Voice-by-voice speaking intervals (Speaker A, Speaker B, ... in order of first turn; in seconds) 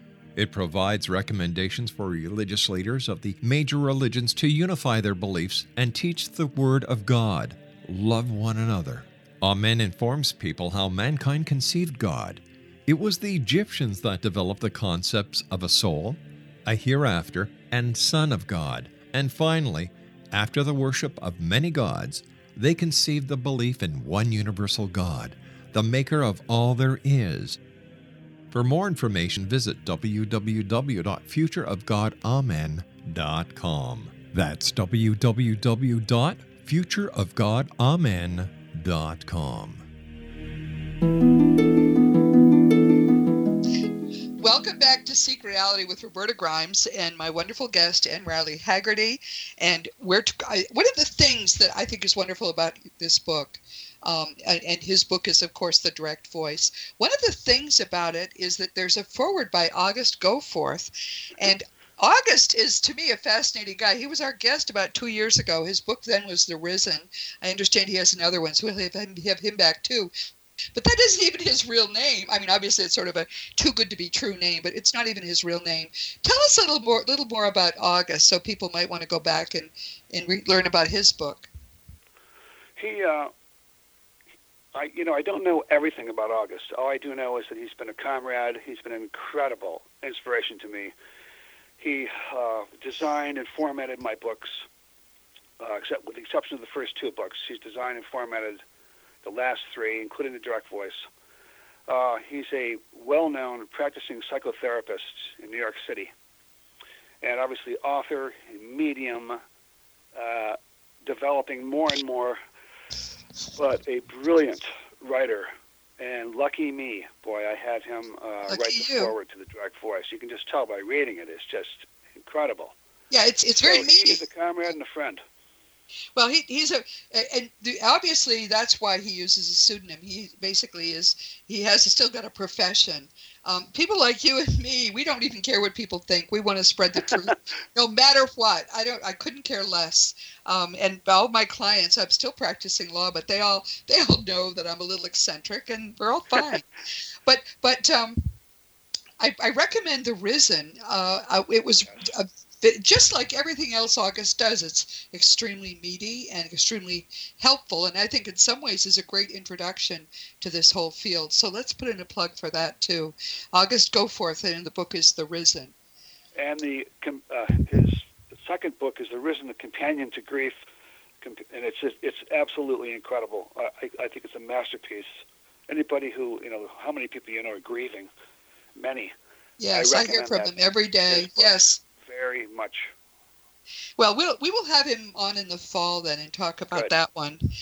Speaker A: 0.4-27.6, 28.5-39.8
Speaker B: 44.4-70.1, 70.7-81.5, 118.5-119.1, 123.1-124.2, 126.2-146.7, 147.2-148.3, 149.2-165.7, 179.6-181.8, 184.0-187.4
Speaker C: 82.8-83.3, 84.7-90.9, 91.8-94.6, 95.6-98.6, 99.2-101.1, 101.9-106.1, 107.2-109.4, 110.1-112.4, 113.5-122.7, 123.5-125.2, 151.8-152.1, 166.4-170.6, 171.2-178.1, 178.7-179.1, 179.7-180.6, 181.1-182.9